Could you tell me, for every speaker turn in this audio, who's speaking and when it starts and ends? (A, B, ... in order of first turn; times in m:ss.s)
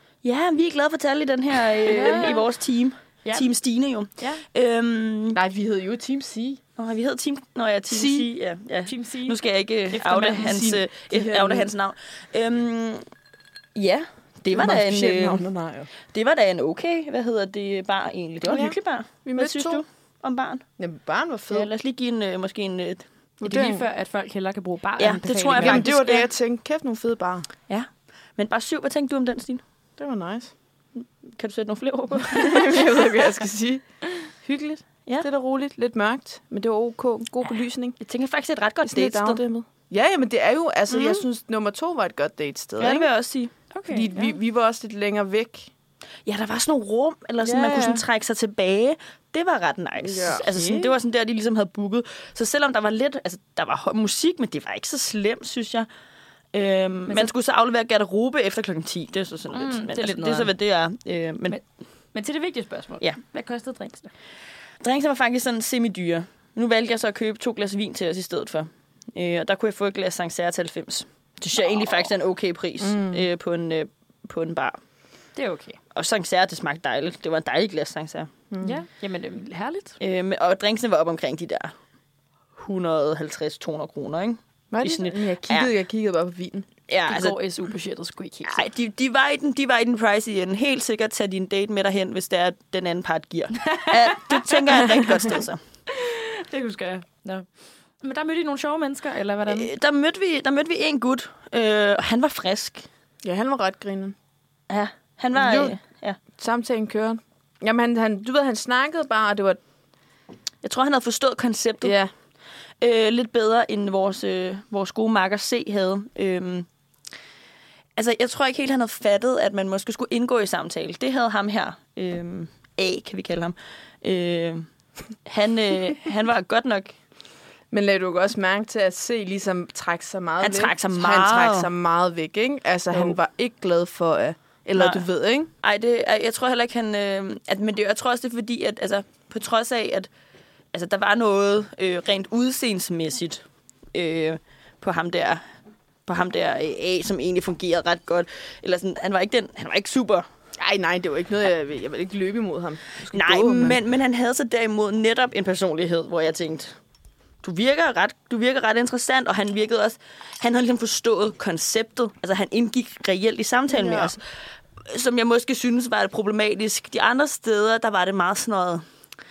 0:00.2-0:05.4 A
0:01.8-0:02.4 B
0:01.9-0:02.5 C
0:03.2-0:03.5 B
0:05.3-0:06.6 C
0:06.8-0:13.0 A
0:07.9-0:08.3 C
0:08.9-0:10.7 B
0:10.4-0:11.7 C
0:13.8-0:15.4 A
0:14.5-0:15.9 C
0:16.1-0:20.6 A
0:18.4-0:19.8 C
0:20.8-0:21.7 C
0:21.5-0:23.1 A
0:23.4-0:23.8 C
0:23.4-0:25.9 B
0:25.0-0:26.3 A
0:25.6-0:27.5 C
0:27.7-0:29.6 A
0:30.0-0:30.5 C
0:31.0-0:33.0 A
0:32.3-0:38.0 C
0:38.0-0:39.4 A
0:38.8-0:43.1 C
0:40.9-0:41.2 A
0:42.8-0:43.5 A
0:43.7-0:44.4 B
0:43.9-0:45.7 C
0:46.3-0:55.9 A
0:47.4-0:48.0 C
0:50.0-0:50.5 C
0:50.4-0:50.9 B
0:56.5-1:01.6 A
0:59.5-1:00.5 B
1:02.1-1:04.1 B
1:04.8-1:14.8 A
1:12.8-1:13.3 C
1:15.4-1:15.8 B
1:16.0-1:18.3 A
1:18.5-1:18.8 C
1:18.6-1:20.0 B
1:20.0-1:21.7 A
1:22.6-1:25.7 A
1:24.7-1:26.7 C
1:26.9-1:27.4 A
1:27.1-1:28.7 B
1:28.5-1:35.6 A
1:33.6-1:35.0 B
1:35.9-1:37.5 B
1:38.0-1:39.7 B
1:39.5-1:42.9 A
1:43.2-1:44.2 C
1:44.7-1:46.2 A
1:45.4-1:45.8 C
1:46.4-1:49.6 C
1:50.6-1:52.0 A
1:51.8-1:52.1 C
1:52.8-1:56.7 A
1:58.0-2:04.7 A
2:05.3-2:07.0 A
2:07.7-2:15.5 C
2:10.4-2:11.7 A
2:12.9-2:13.2 A
2:14.8-2:15.0 A
2:15.6-2:20.1 A
2:20.7-2:23.4 A
2:23.9-2:25.4 A
2:26.1-2:30.3 A
2:30.6-2:33.8 C
2:33.1-2:36.8 A
2:37.4-2:44.2 A
2:43.7-2:44.2 C
2:44.8-2:48.8 A